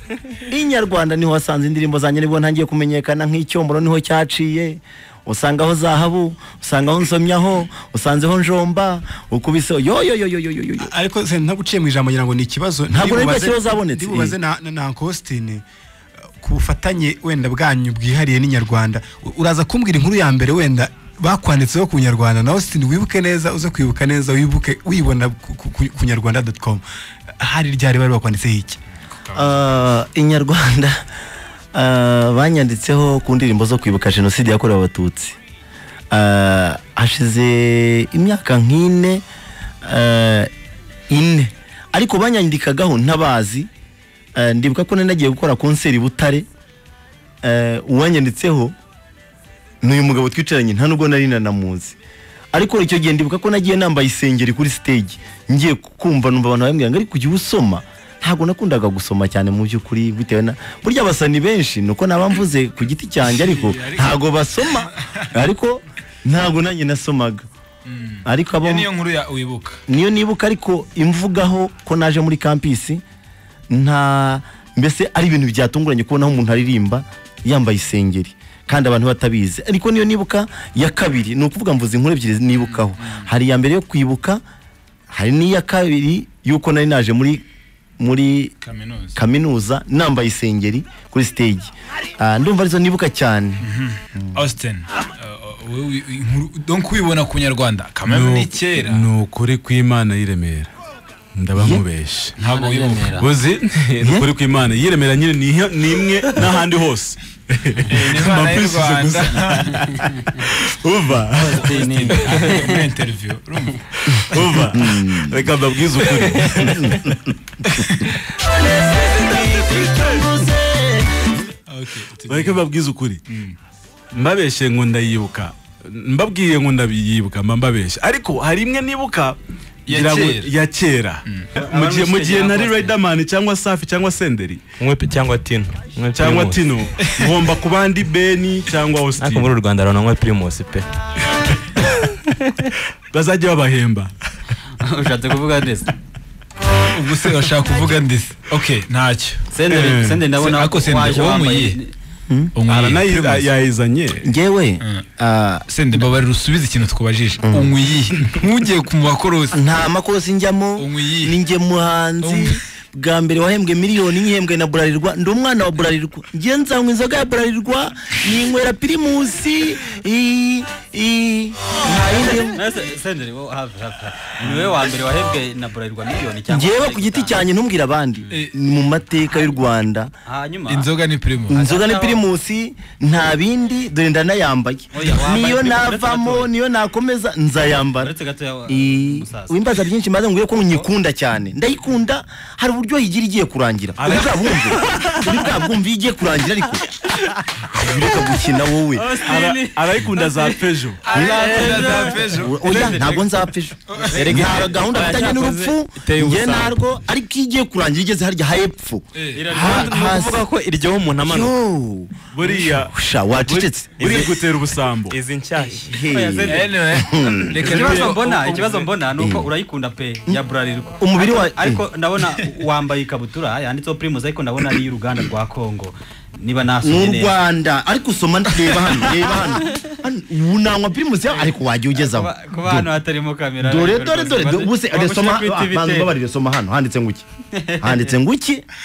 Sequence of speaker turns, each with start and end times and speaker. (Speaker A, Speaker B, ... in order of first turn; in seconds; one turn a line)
Speaker A: 0.4-10.9
Speaker B: 10.8-15.6
Speaker A: 12.9-14.3
Speaker B: 16.4-26.8
Speaker B: 27.4-28.8
Speaker C: 29.1-29.6
Speaker A: 29.3-31.0
Speaker A: 31.7-35.4
Speaker A: 36.1-39.2
Speaker A: 39.8-40.5
Speaker A: 41.1-43.7
Speaker A: 44.4-46.5
Speaker A: 47.4-48.7
Speaker A: 49.8-52.0
Speaker A: 52.5-67.4
Speaker C: 63.2-65.3
Speaker C: 67.8-69.8
Speaker A: 68.2-68.9
Speaker A: 69.9-73.0
Speaker A: 73.7-84.4
Speaker C: 82.6-83.3
Speaker A: 85.1-87.4
Speaker A: 88.0-88.5
Speaker C: 88.6-89.2
Speaker A: 89.2-93.6
Speaker C: 93.6-99.1
Speaker D: 98.1-100.7
Speaker D: 101.3-102.3
Speaker A: 101.6-101.8
Speaker C: 102.4-103.1
Speaker E: 102.4-103.3
Speaker D: 103.2-112.3
Speaker A: 104.0-104.3
Speaker C: 107.9-109.8
Speaker E: 111.5-112.7
Speaker C: 111.6-113.8
Speaker D: 114.1-116.9
Speaker A: 114.7-115.4
Speaker A: 116.6-117.3
Speaker C: 117.7-118.2
Speaker A: 118.3-121.4
Speaker C: 121.7-122.6
Speaker D: 122.2-123.2
Speaker C: 123.3-123.6
Speaker D: 124.1-134.7
Speaker C: 129.9-130.5
Speaker E: 131.6-132.9
Speaker F: 134.8-136.6
Speaker D: 136.1-139.5
Speaker C: 137.0-137.3
Speaker F: 139.2-140.9
Speaker D: 141.8-142.1
Speaker F: 142.3-142.5
Speaker D: 143.1-144.1
Speaker E: 144.8-145.9
Speaker C: 146.9-149.5
Speaker E: 149.5-151.9
Speaker D: 149.7-150.2
Speaker C: 150.4-151.8
Speaker C: 152.5-153.5
Speaker D: 152.7-154.3
Speaker A: 154.2-155.6
Speaker C: 155.7-159.6
Speaker A: 157.4-157.7
Speaker A: 159.5-172.6
Speaker C: 160.8-161.4
Speaker C: 162.2-162.6
Speaker E: 172.1-177.4
Speaker A: 176.5-180.1
Speaker E: 180.3-180.9
Speaker C: 180.7-181.6
Speaker A: 181.5-188.1
Speaker E: 181.5-182.2
Speaker E: 184.9-186.5
Speaker E: 187.9-189.6
Speaker A: 188.7-196.8
Speaker D: 194.0-195.1
Speaker A: 197.7-199.1
Speaker E: 198.9-203.2
Speaker D: 199.2-201.0
Speaker C: 201.0-202.6
Speaker A: 201.1-210.4
Speaker C: 203.9-204.5
Speaker E: 204.1-204.7
Speaker F: 204.1-206.8
Speaker C: 209.2-209.5
Speaker E: 209.3-209.9
Speaker F: 209.6-211.6
Speaker A: 211.2-214.0
Speaker D: 212.3-215.2
Speaker F: 214.0-214.4
Speaker F: 215.1-216.0
Speaker E: 215.6-216.8
Speaker A: 215.9-217.6
Speaker C: 216.5-218.9
Speaker E: 217.5-227.3
Speaker A: 219.2-219.5
Speaker A: 221.0-221.8
Speaker A: 226.8-232.9
Speaker E: 231.3-236.1
Speaker A: 233.6-237.2
Speaker E: 237.6-238.1
Speaker A: 237.8-238.6